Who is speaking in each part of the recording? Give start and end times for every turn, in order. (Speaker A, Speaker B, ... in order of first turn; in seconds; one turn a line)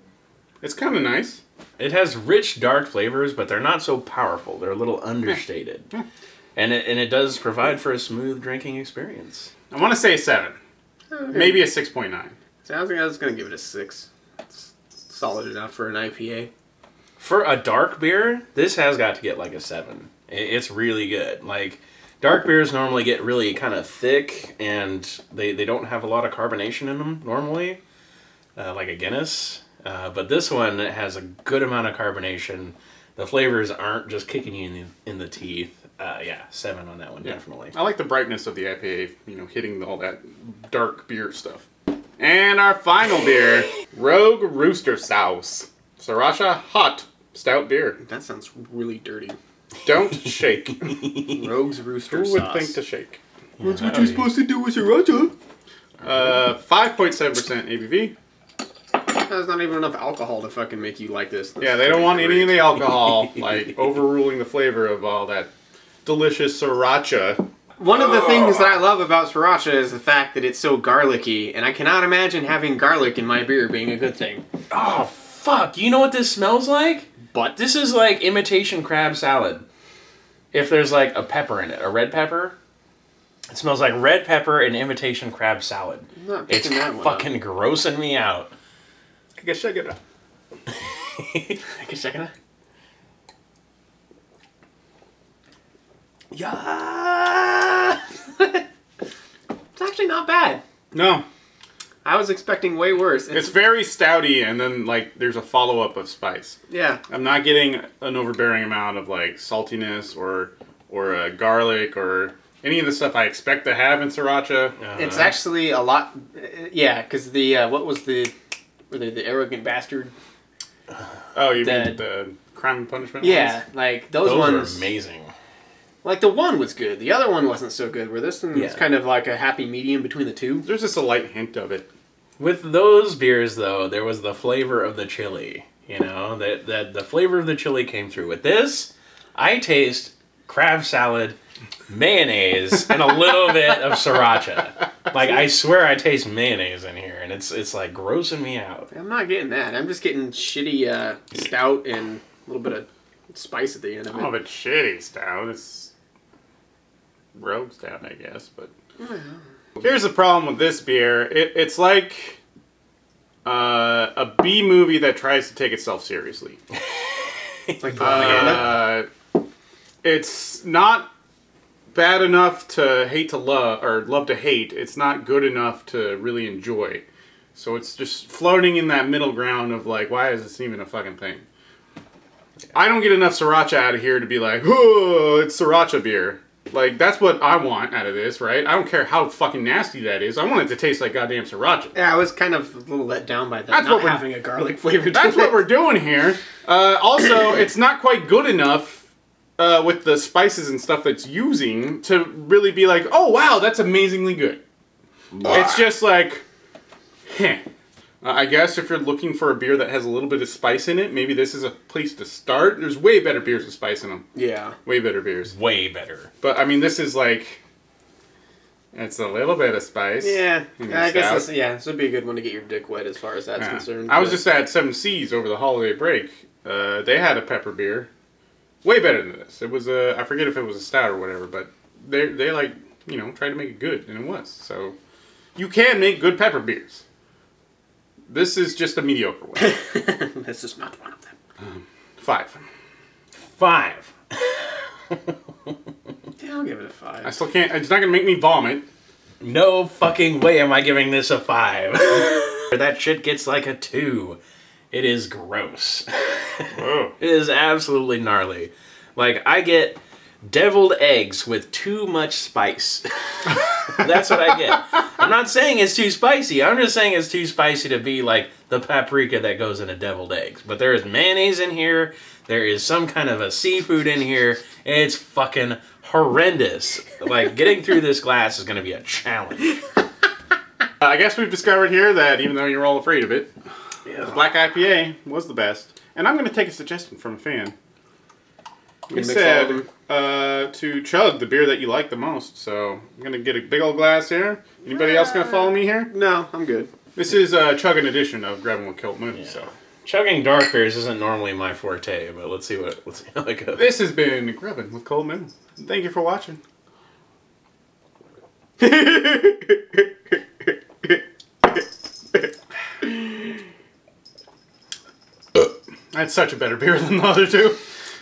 Speaker A: 0.6-1.4
Speaker B: 1.8-5.9
Speaker B: 6.5-9.5
Speaker A: 9.7-10.6
Speaker C: 11.1-11.7
Speaker A: 11.3-12.3
Speaker C: 12.6-16.5
Speaker B: 17.2-27.8
Speaker B: 28.6-37.7
Speaker A: 37.2-41.7
Speaker A: 42.2-48.0
Speaker C: 48.0-49.4
Speaker A: 49.8-51.0
Speaker B: 50.3-51.3
Speaker C: 51.3-52.8
Speaker A: 52.1-53.2
Speaker B: 53.6-54.3
Speaker C: 53.6-55.3
Speaker A: 56.0-58.1
Speaker C: 59.1-62.7
Speaker A: 61.6-65.5
Speaker A: 66.0-67.4
Speaker C: 67.8-74.4
Speaker A: 67.9-68.7
Speaker B: 74.7-79.6
Speaker B: 80.5-82.5
Speaker B: 83.5-88.5
Speaker C: 86.1-87.3
Speaker A: 89.4-90.0
Speaker B: 91.2-91.5
Speaker C: 91.6-92.3
Speaker B: 96.3-98.0
Speaker C: 98.3-98.6
Speaker C: 99.7-100.6
Speaker A: 100.9-101.2
Speaker C: 102.0-103.5
Speaker A: 103.3-106.6
Speaker C: 106.7-107.0
Speaker A: 107.1-114.8
Speaker B: 114.8-115.3
Speaker C: 115.0-118.3
Speaker C: 118.9-120.1
Speaker A: 121.3-123.6
Speaker C: 121.6-122.0
Speaker C: 123.2-124.8
Speaker B: 124.2-125.3
Speaker C: 126.0-130.7
Speaker B: 128.5-128.8
Speaker A: 130.6-131.9
Speaker B: 132.4-141.3
Speaker B: 141.9-148.9
Speaker C: 148.9-154.3
Speaker A: 154.1-155.9
Speaker A: 157.3-158.7
Speaker C: 159.0-159.4
Speaker A: 159.8-162.4
Speaker A: 163.4-166.6
Speaker C: 167.8-168.8
Speaker B: 168.0-168.6
Speaker A: 168.0-169.1
Speaker A: 170.0-171.1
Speaker A: 171.9-177.0
Speaker A: 177.5-181.4
Speaker A: 182.7-191.9
Speaker C: 191.9-195.7
Speaker A: 193.7-194.2
Speaker A: 195.1-204.6
Speaker A: 205.4-206.4
Speaker A: 207.3-207.6
Speaker A: 208.2-214.2
Speaker C: 214.3-214.8
Speaker A: 214.8-215.6
Speaker B: 215.4-216.3
Speaker A: 216.4-217.6
Speaker A: 218.9-221.5
Speaker C: 220.2-224.4
Speaker A: 223.6-228.1
Speaker A: 228.8-234.9
Speaker A: 235.6-237.0
Speaker A: 238.3-239.7
Speaker C: 239.6-241.3
Speaker A: 241.6-242.6
Speaker B: 243.5-244.1
Speaker C: 246.4-247.4
Speaker A: 247.2-248.8
Speaker B: 249.4-254.4
Speaker B: 254.9-279.8
Speaker A: 256.8-257.1
Speaker A: 281.0-283.5
Speaker A: 284.2-287.7
Speaker A: 289.1-296.1
Speaker C: 289.1-289.9
Speaker C: 294.9-296.9
Speaker A: 297.1-299.7
Speaker B: 299.3-303.9
Speaker A: 303.7-306.6
Speaker C: 308.8-310.0
Speaker C: 313.0-313.3
Speaker A: 316.1-317.8